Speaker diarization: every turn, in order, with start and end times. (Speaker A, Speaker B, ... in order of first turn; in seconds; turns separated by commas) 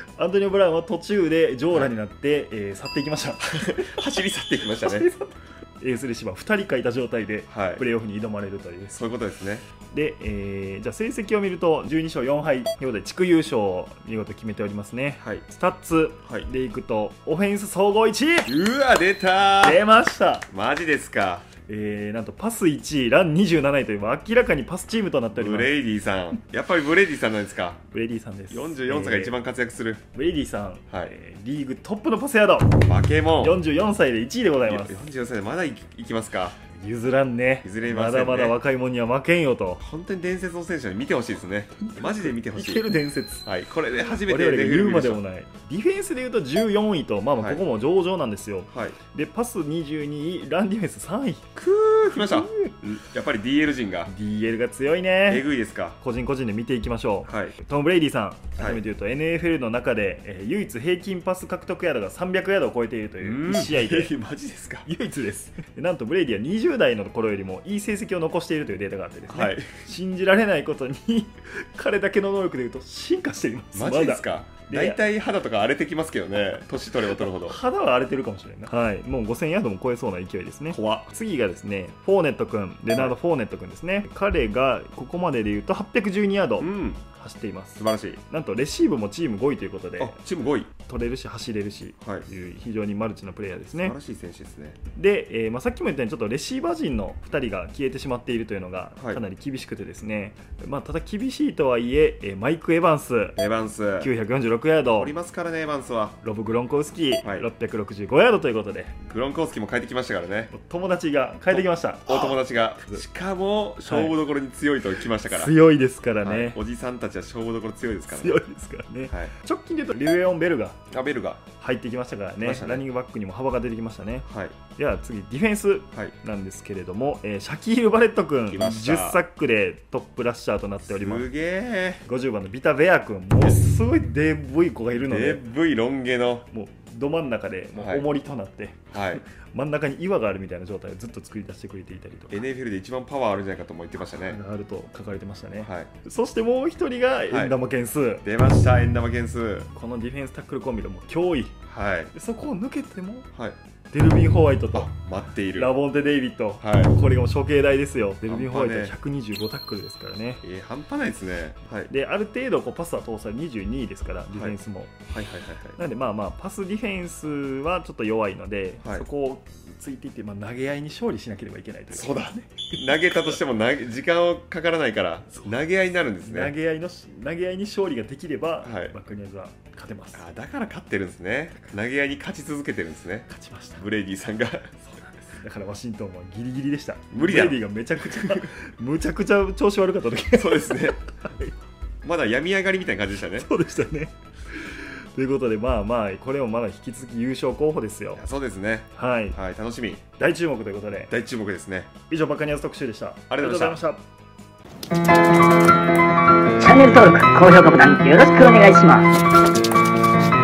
Speaker A: 0.2-3.9, Speaker B: 3.6-5.1, Speaker A: 4.8-9.0, Speaker B: 7.5-7.8, Speaker B: 8.9-9.7, Speaker A: 9.9-18.5, Speaker B: 18.5-19.8, Speaker A: 19.6-20.5, Speaker B: 20.5-21.5, Speaker A: 21.7-25.7, Speaker B: 25.3-27.8, Speaker A: 27.9-29.4, Speaker B: 28.5-30.0, Speaker A: 30.1-32.8, Speaker B: 32.8-33.6, Speaker A: 33.4-35.0, Speaker B: 34.7-36.6, Speaker A: 36.7-39.8, Speaker B: 37.6-38.6, Speaker B: 39.8-42.9, Speaker A: 41.8-43.5, Speaker B: 43.5-45.2, Speaker A: 44.1-51.5, Speaker B: 47.4-47.6, Speaker B: 48.7-49.0, Speaker B: 51.5-54.1, Speaker A: 52.2-52.9, Speaker A: 54.1-55.5, Speaker B: 55.3-56.0, Speaker A: 56.0-64.1, Speaker B: 57.3-57.5, Speaker B: 58.6-58.8, Speaker B: 63.2-64.9, Speaker A: 64.9-75.0, Speaker B: 69.3-69.7, Speaker B: 73.8-77.6, Speaker A: 77.2-90.2, Speaker B: 86.6-87.0, Speaker B: 87.8-88.2, Speaker B: 90.0-90.7, Speaker A: 90.8-94.0, Speaker B: 93.8-94.8, Speaker A: 94.9-103.4, Speaker B: 103.4-104.1, Speaker A: 104.0-105.2, Speaker B: 105.0-106.2, Speaker A: 106.2-108.9, Speaker B: 107.2-107.5, Speaker B: 109.0-110.5, Speaker A: 110.5-113.0, Speaker B: 111.5-115.5, Speaker A: 113.9-114.2, Speaker A: 115.3-116.6, Speaker B: 116.2-118.4, Speaker A: 118.1-120.8, Speaker B: 120.9-121.4, Speaker A: 121.6-131.3, Speaker B: 122.4-122.8, Speaker B: 124.3-124.6, Speaker B: 128.5-129.2, Speaker B: 130.9-132.0, Speaker A: 132.1-135.4, Speaker B: 135.0-136.5, Speaker A: 136.5-142.4, Speaker B: 137.8-138.0, Speaker B: 138.9-139.2, Speaker B: 142.3-144.4, Speaker A: 144.0-148.2, Speaker B: 145.6-145.9, Speaker B: 147.3-147.6, Speaker B: 148.2-149.7, Speaker A: 149.7-151.6, Speaker B: 151.7-152.1, Speaker A: 152.1-153.3, Speaker A: 153.9-154.9, Speaker B: 154.7-155.7, Speaker A: 155.6-160.4, Speaker B: 156.6-157.0, Speaker B: 158.3-158.9, Speaker B: 160.4-161.9, Speaker A: 161.9-165.0, Speaker B: 164.3-164.6, Speaker B: 165.1-165.8, Speaker A: 165.8-173.2, Speaker B: 171.9-176.6, Speaker A: 175.3-175.6, Speaker A: 176.2-180.2, Speaker B: 178.6-178.9, Speaker B: 180.1-183.3, Speaker A: 183.3-183.9, Speaker B: 183.8-184.7, Speaker A: 184.9-191.5, Speaker B: 187.1-187.6, Speaker B: 188.1-188.5, Speaker B: 190.3-191.0, Speaker B: 192.0-193.5, Speaker A: 193.4-198.2, Speaker B: 198.2-200.0, Speaker A: 199.0-199.4, Speaker A: 200.2-201.1, Speaker B: 201.1-201.9, Speaker A: 202.1-204.0, Speaker B: 203.3-203.8, Speaker C: 206.6-209.1